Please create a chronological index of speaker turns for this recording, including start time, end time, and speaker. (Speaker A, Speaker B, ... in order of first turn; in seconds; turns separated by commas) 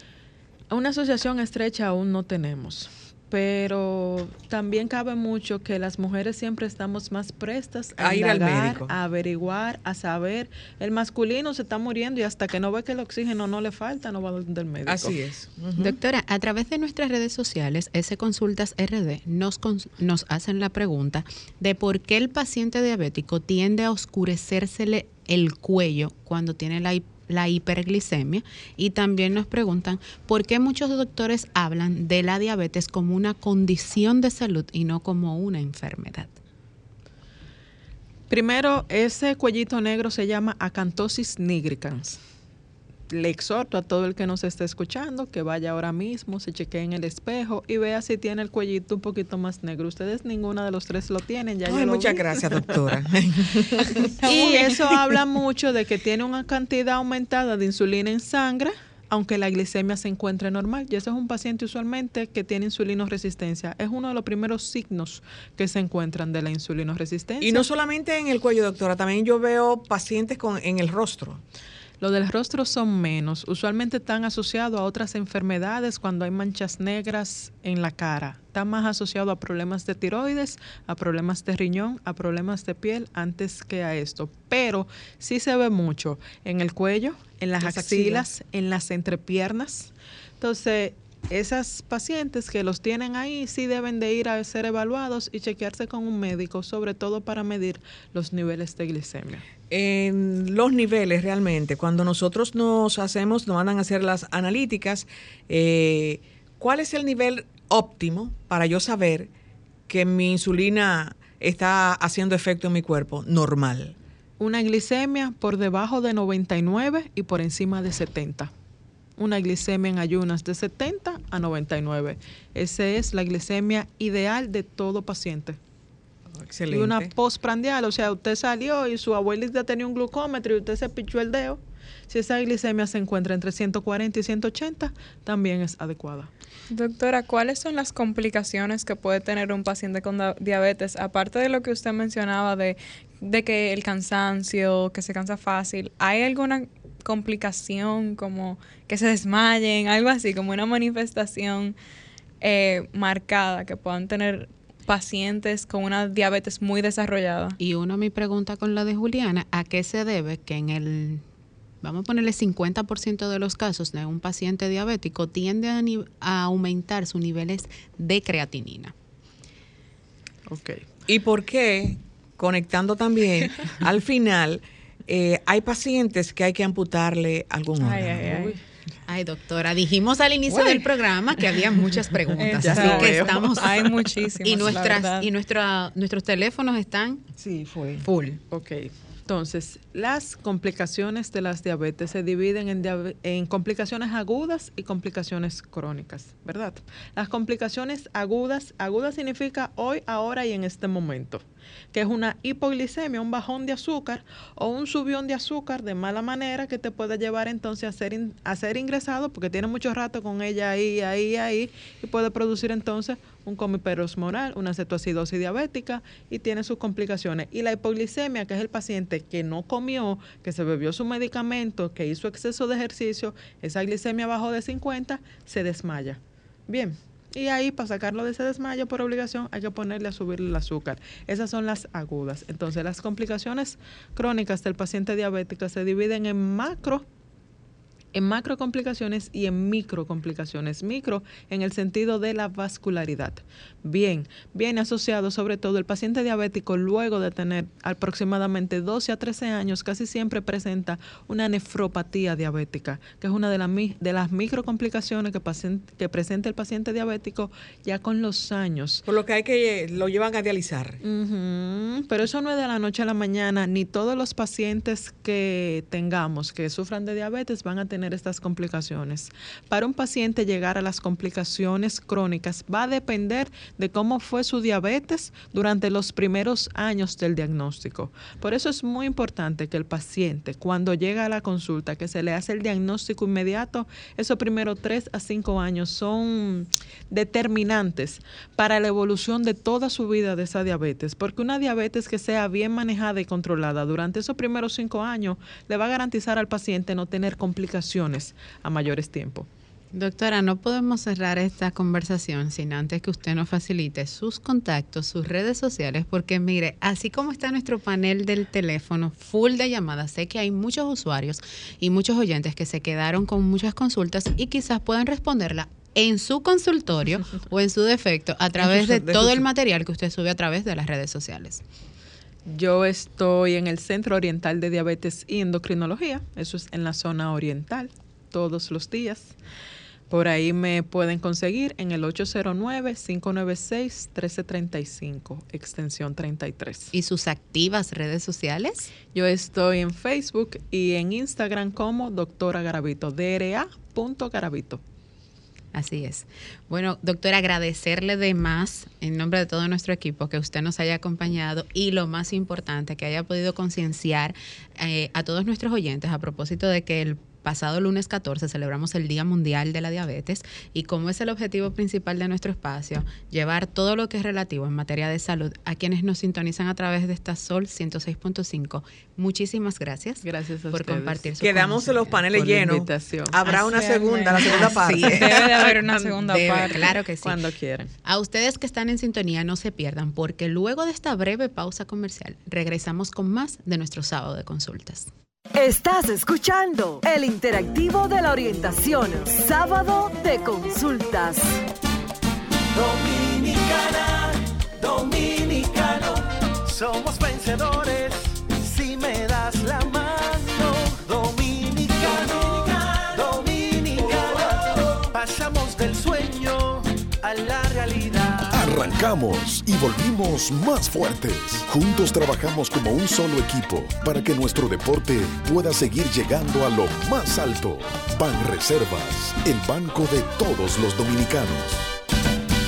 Speaker A: 0.7-15.2, Speaker B: 8.0-8.9, Speaker B: 14.9-16.0, Speaker C: 15.8-36.4, Speaker A: 38.3-42.2, Speaker A: 43.1-52.5, Speaker B: 51.7-54.6, Speaker A: 54.2-67.7, Speaker B: 67.4-71.4, Speaker A: 72.0-99.4, Speaker B: 87.6-88.3, Speaker B: 99.7-109.3, Speaker B: 109.9-113.9, Speaker A: 114.4-118.5, Speaker A: 119.2-125.6, Speaker B: 126.4-127.1, Speaker A: 126.7-136.3, Speaker D: 136.7-151.8, Speaker D: 152.4-157.6, Speaker C: 157.6-161.2, Speaker C: 161.8-168.9, Speaker A: 170.5-170.8, Speaker B: 171.1-178.5, Speaker D: 177.8-178.6, Speaker C: 179.1-183.9, Speaker A: 182.4-183.7, Speaker D: 182.4-185.3, Speaker C: 184.4-187.2, Speaker A: 187.4-188.0, Speaker C: 188.0-188.4, Speaker A: 188.5-237.1, Speaker A: 238.1-259.0, Speaker B: 259.1-261.0, Speaker A: 261.0-299.5, Speaker C: 299.9-321.6, Speaker B: 318.6-319.4, Speaker A: 322.5-329.3, Speaker A: 330.1-336.9, Speaker C: 336.9-338.9, Speaker A: 339.1-344.8, Speaker C: 345.7-372.2, Speaker A: 370.2-371.3, Speaker B: 371.4-375.7, Speaker A: 372.3-373.4, Speaker D: 373.5-376.9, Speaker C: 374.4-375.4, Speaker C: 376.0-377.4, Speaker A: 377.2-377.9, Speaker C: 378.0-385.1, Speaker E: 385.5-391.6, Speaker F: 392.7-408.9, Speaker G: 408.5-421.9